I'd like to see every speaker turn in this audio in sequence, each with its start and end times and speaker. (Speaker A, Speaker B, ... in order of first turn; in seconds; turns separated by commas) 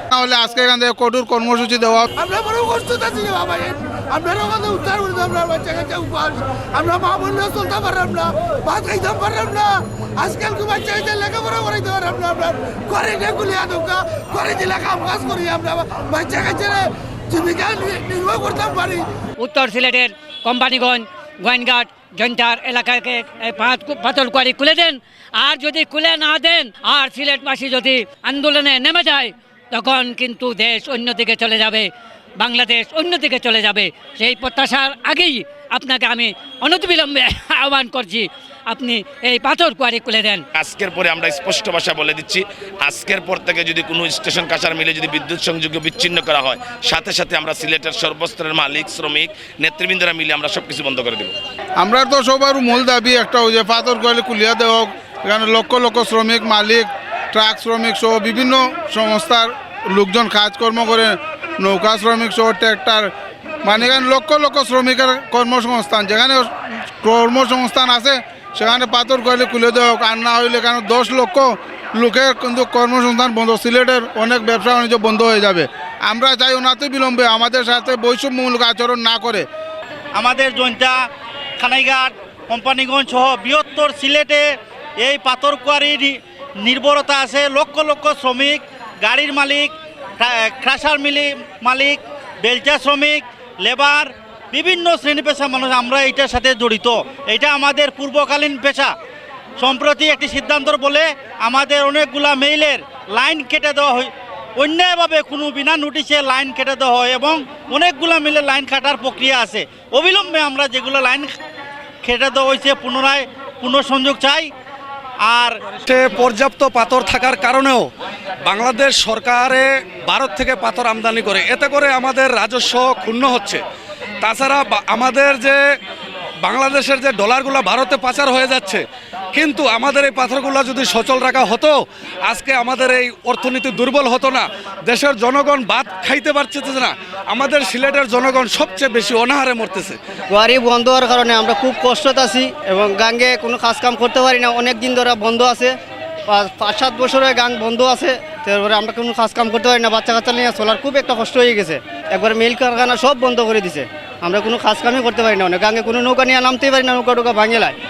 Speaker A: 0.1-2.1, Speaker B: 2.2-19.0, Speaker C: 19.4-40.4, Speaker D: 40.5-51.3, Speaker A: 51.8-63.1, Speaker A: 63.6-79.5, Speaker E: 80.2-81.0, Speaker E: 81.6-84.5, Speaker E: 85.0-98.9, Speaker E: 99.6-111.3, Speaker E: 112.0-114.5, Speaker E: 115.3-115.6, Speaker F: 115.9-117.9, Speaker F: 118.5-123.6, Speaker F: 124.2-125.6, Speaker F: 126.4-128.8, Speaker F: 129.3-131.8, Speaker F: 132.3-140.0, Speaker G: 140.3-145.7, Speaker G: 146.3-157.7